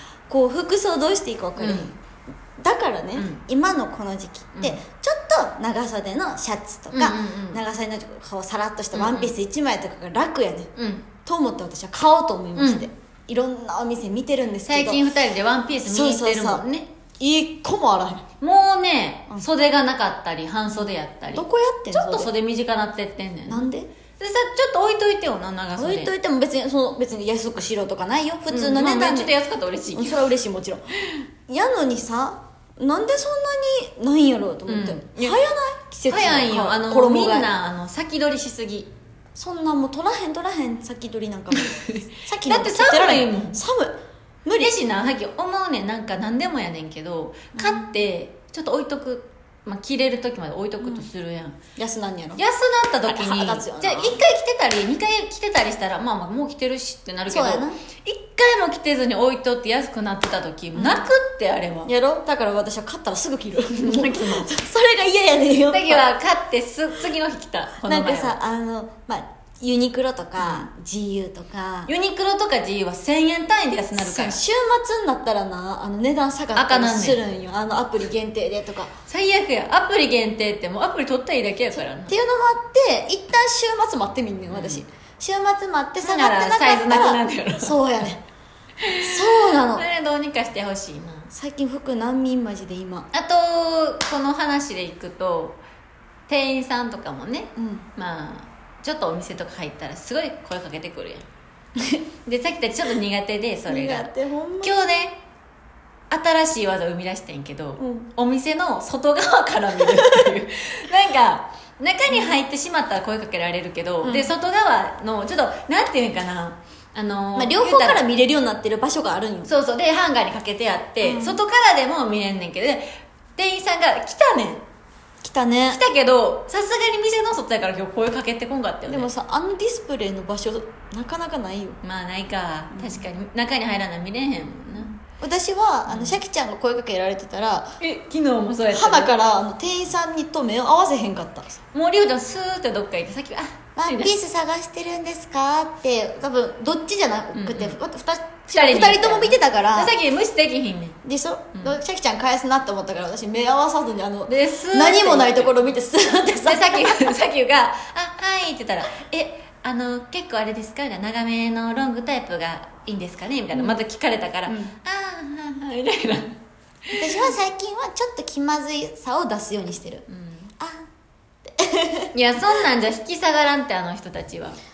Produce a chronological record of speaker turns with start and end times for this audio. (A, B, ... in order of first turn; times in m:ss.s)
0:00.3-0:02.0 A
0:01.6-0:02.0 B
0:02.6-0:10.7 A
0:03.2-0:03.4 B
0:06.9-0:07.6 B
0:08.9-0:09.4 B
0:10.8-0:11.1 B
0:11.2-0:15.0 A
0:12.6-0:12.9 B
0:14.6-0:16.9 B
0:15.8-0:16.6 A
0:17.2-0:18.3 A
0:18.4-0:26.1 B
0:21.3-0:22.3 A
0:23.5-0:23.9 A
0:25.8-0:29.3 A
0:28.5-0:30.4 B
0:29.9-0:30.9 A
0:31.5-0:37.5 A
0:34.7-0:35.4 B
0:36.1-0:38.9 B
0:39.4-0:44.7 A
0:41.5-0:43.6 B
0:44.6-0:51.6 B
0:47.5-0:47.9 A
0:50.8-0:51.1 A
0:51.8-0:52.4 A
0:52.4-1:01.9 B
0:53.0-0:54.2 A
0:57.3-0:57.8 A
1:00.7-1:01.1 A
1:01.8-1:06.1 A
1:03.8-1:04.5 B
1:05.7-1:08.4 B
1:07.8-1:11.9 A
1:10.4-1:10.7 B
1:11.9-1:14.4 B
1:14.0-1:18.9 A
1:16.6-1:17.2 B
1:19.1-1:22.1 B
1:21.7-1:28.2 A
1:24.5-1:24.8 B
1:26.0-1:27.9 B
1:28.8-1:31.3 B
1:29.0-1:29.8 A
1:31.3-1:33.1 A
1:33.1-1:35.6 B
1:36.3-1:41.3 B
1:37.6-1:37.8 A
1:42.3-1:45.2 B
1:43.7-1:44.8 A
1:46.1-1:58.0 B
1:47.8-1:48.1 A
1:52.1-1:52.4 A
1:54.0-1:54.3 A
1:57.4-1:59.5 A
1:59.4-2:02.8 B
2:01.0-2:01.4 A
2:03.4-2:04.6 B
2:05.2-2:05.8 A
2:05.7-2:09.1 B
2:08.9-2:11.8 A
2:11.8-2:15.0 B
2:12.7-2:13.0 A
2:15.0-2:17.8 A
2:15.9-2:16.2 B
2:17.8-2:19.1 B
2:18.7-2:21.6 A
2:21.7-2:24.1 B
2:23.8-2:29.9 A
2:27.4-2:27.8 B
2:28.5-2:31.0 B
2:31.0-2:37.1 A
2:31.6-2:31.8 B
2:34.3-2:35.8 B
2:36.4-2:46.4 B
2:44.5-2:44.7 A
2:46.9-2:47.3 B
2:46.9-2:50.1 A
2:50.1-2:50.5 B
2:51.5-2:52.1 A
2:52.1-2:54.6 B